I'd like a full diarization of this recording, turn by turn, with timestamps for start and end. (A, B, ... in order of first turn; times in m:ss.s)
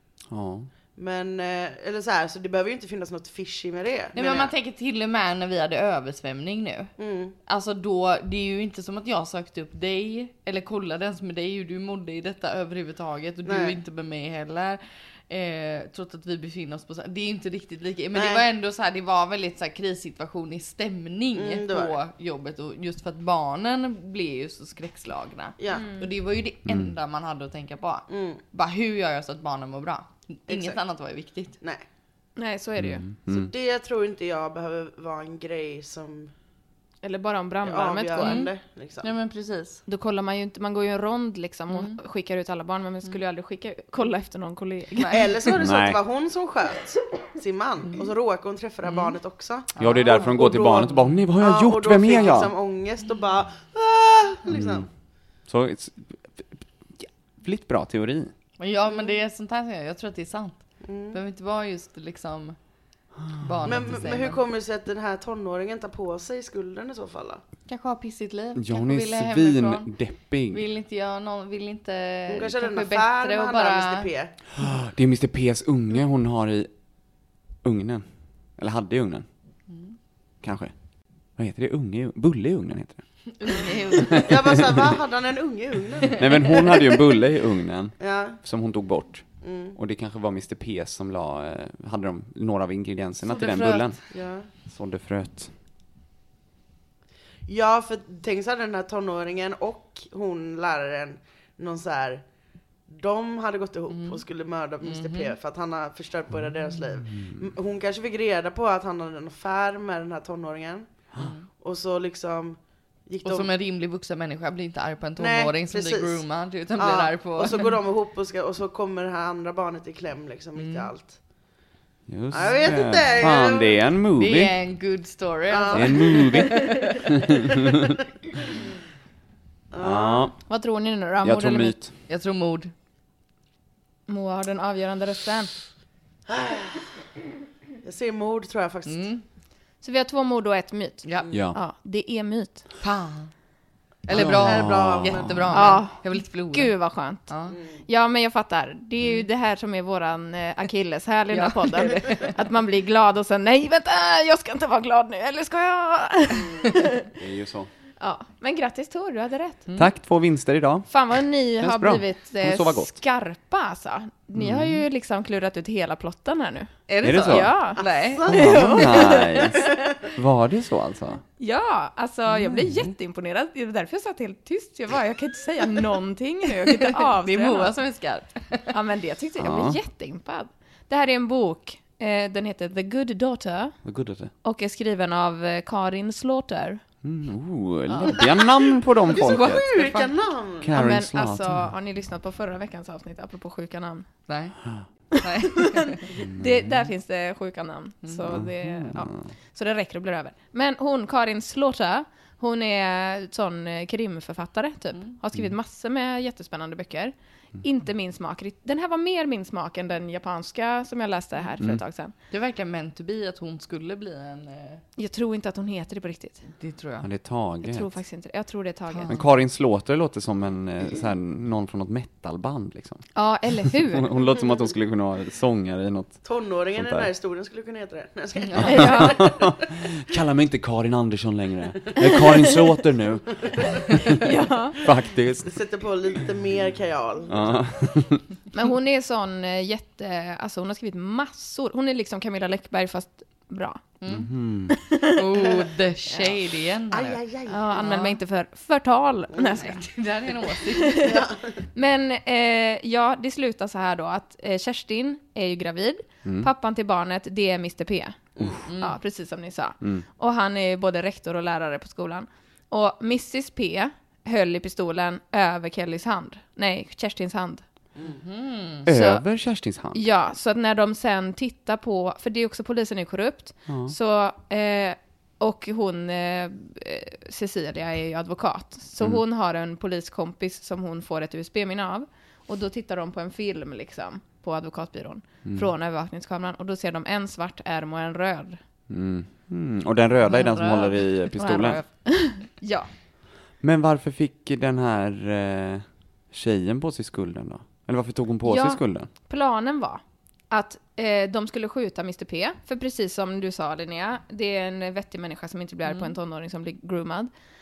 0:00.3-0:00.7 A
0:01.0-0:04.5 B
0:04.1-0:06.9 C
0:07.0-0:07.3 B
0:07.5-0:31.6 C
0:13.4-0:13.8 B
0:18.1-0:18.4 B
0:21.3-0:22.0 B
0:25.6-0:25.9 B
0:25.7-0:26.1 D
0:26.6-0:26.9 A
0:28.1-0:28.4 B
0:30.5-0:30.8 B
0:32.4-0:33.0 D
0:32.8-0:33.5 A
0:33.3-0:36.3 B
0:37.0-0:38.5 D
0:37.6-0:39.1 B
0:38.2-0:39.8 C
0:39.9-0:45.2 D
0:41.7-0:42.0 C
0:45.0-0:45.4 C
0:45.1-0:54.9 B
0:45.6-0:46.0 A
0:48.8-0:49.2 C
0:49.8-0:50.4 C
0:49.8-0:52.5 A
0:54.5-0:54.9 A
0:55.5-0:58.3 A
0:58.6-1:02.6 C
1:00.8-1:01.2 B
1:03.2-1:03.7 A
1:03.4-1:04.4 C
1:03.6-1:07.4 B
1:07.7-1:09.9 C
1:08.5-1:10.6 A
1:10.5-1:14.1 C
1:12.3-1:14.3 B
1:14.6-1:16.7 A
1:17.6-1:19.2 A
1:19.7-1:20.0 C
1:20.4-1:20.7 A
1:21.4-1:23.0 A
1:23.4-1:24.5 C
1:24.1-1:24.8 A
1:24.2-1:26.7 B
1:26.2-1:34.0 A
1:28.0-1:28.4 B
1:29.4-1:29.8 B
1:33.2-1:33.9 C
1:34.1-1:34.5 B
1:34.6-1:35.5 A
1:37.5-1:42.2 B
1:42.9-1:50.9 B
1:43.9-1:44.2 C
1:44.8-1:45.4 C
1:47.0-1:47.4 A
1:51.2-1:51.5 C
1:51.6-1:53.5 B
1:53.2-1:57.8 C
1:55.2-1:56.2 B
1:56.8-2:01.2 B
2:00.5-2:00.9 C
2:02.1-2:04.6 A
2:02.3-2:03.8 B
2:04.2-2:07.0 C
2:05.5-2:06.6 B
2:05.7-2:07.9 A
2:09.7-2:10.3 B
2:09.8-2:10.4 A
2:10.5-2:11.8 D
2:11.2-2:11.9 A
2:12.1-2:12.7 C
2:14.1-2:15.5 D
2:16.3-2:16.8 B
2:17.8-2:19.1 B
2:18.8-2:19.2 C
2:19.8-2:22.6 D
2:21.0-2:21.3 C
2:21.3-2:21.6 A
2:22.8-2:23.3 C
2:24.0-2:26.7 C
2:24.1-2:25.8 B
2:24.1-2:25.4 A
2:25.5-2:27.3 D
2:27.3-2:27.6 C
2:27.5-2:27.8 B
2:27.8-2:37.1 D
2:31.3-2:32.3 C
2:37.1-2:37.7 A
2:38.0-2:39.7 D
2:39.8-2:43.0 A
2:40.9-2:49.7 D
2:44.3-2:44.8 A
2:46.9-2:48.5 C
2:47.0-2:47.6 A
2:47.8-2:49.6 B
2:48.2-2:51.2 A
2:51.4-2:57.7 D
2:52.3-2:52.9 A
2:56.7-2:58.7 C
2:58.7-3:03.8 D
2:59.4-2:59.8 A
3:03.8-3:04.3 A
3:04.4-3:06.8 D
3:07.0-3:09.7 A
3:09.1-3:10.7 B
3:09.2-3:10.1 C
3:10.6-3:11.7 A
3:10.7-3:14.1 D
3:14.3-3:14.6 C
3:15.2-3:16.0 C
3:15.2-3:32.1 D
3:16.2-3:16.9 A
3:18.3-3:19.2 A
3:32.3-3:34.8 C
3:35.0-3:36.5 D
3:36.6-3:37.1 C
3:37.0-3:38.0 A
3:37.6-3:39.2 D
3:38.9-3:39.2 C
3:39.1-3:43.1 A
3:43.1-3:44.1 D
3:43.6-3:47.1 A
3:46.2-3:49.5 B
3:48.4-3:48.7 C
3:48.6-3:54.2 A
3:48.6-3:49.2 D
3:54.2-3:54.8 D
3:54.8-3:55.5 A
3:55.4-3:57.5 B
3:57.3-3:58.2 A
3:58.5-4:03.8 D
4:04.0-4:04.3 C
4:04.1-4:04.8 A
4:04.7-4:05.2 D
4:05.1-4:07.2 C
4:05.4-4:05.7 B
4:06.9-4:07.9 B
4:07.5-4:09.9 D
4:07.8-4:08.2 C
4:09.6-4:11.0 C
4:10.7-4:11.2 D
4:11.0-4:11.5 B
4:11.7-4:18.2 D
4:16.2-4:16.5 A
4:18.6-4:19.0 C
4:18.8-4:27.6 D
4:28.0-4:28.9 C
4:28.8-4:30.1 A
4:28.9-4:29.2 D
4:29.9-4:48.6 D
4:33.7-4:33.9 A
4:48.9-4:51.8 A
4:50.3-4:52.9 D
4:53.6-4:59.1 A
4:58.4-5:07.3 D
5:05.9-5:06.1 C